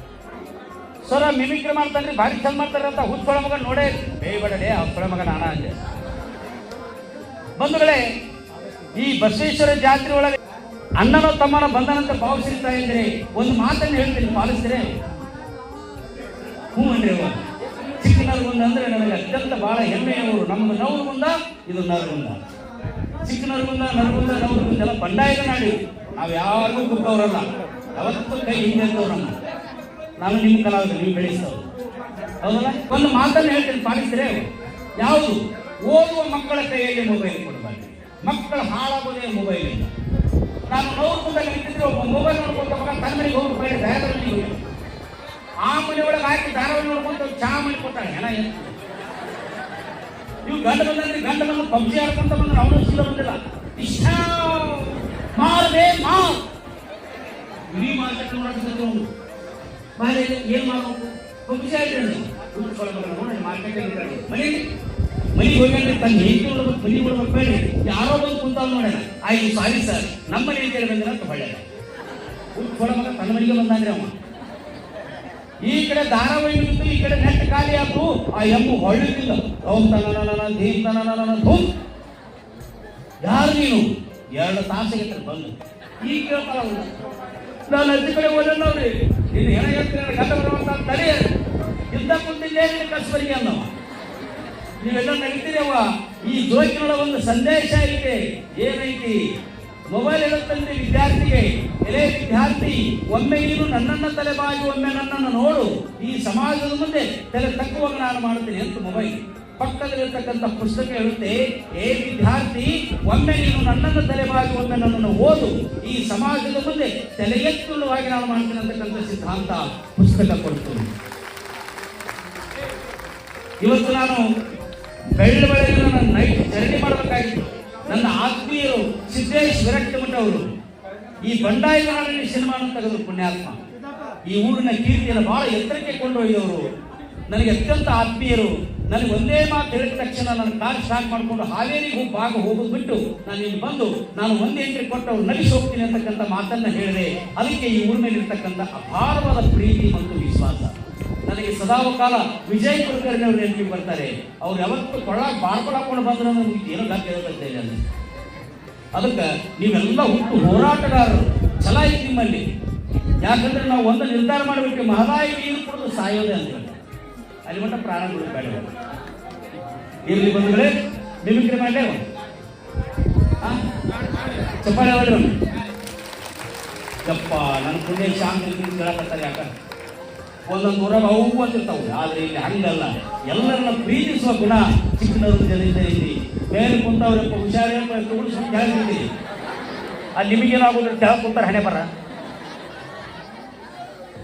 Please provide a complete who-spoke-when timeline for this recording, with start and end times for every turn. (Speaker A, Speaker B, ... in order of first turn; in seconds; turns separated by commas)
Speaker A: 1.0-5.8, Speaker A: 7.6-8.0, Speaker A: 9.0-10.4, Speaker A: 11.0-14.9, Speaker A: 16.7-17.4, Speaker A: 18.0-22.4, Speaker A: 23.2-29.4, Speaker A: 30.2-31.7, Speaker A: 32.4-39.9, Speaker A: 40.7-44.6, Speaker A: 45.6-48.7, Speaker A: 50.4-56.4, Speaker A: 57.7-59.1, Speaker A: 60.0-64.6, Speaker A: 65.3-71.6, Speaker A: 72.6-74.1, Speaker A: 75.6-81.7, Speaker A: 83.2-86.9, Speaker A: 87.7-91.2, Speaker A: 91.9-93.7, Speaker A: 94.8-99.2, Speaker A: 99.9-120.9, Speaker A: 123.6-124.2, Speaker A: 125.2-130.5, Speaker A: 131.2-133.6, Speaker A: 134.3-136.6, Speaker A: 137.3-157.8, Speaker A: 158.9-162.4, Speaker A: 163.2-166.8, Speaker A: 167.5-168.7, Speaker A: 170.1-170.7, Speaker A: 171.2-172.1, Speaker A: 174.6-175.3, Speaker A: 177.1-179.5, Speaker A: 180.5-189.1, Speaker A: 190.2-191.9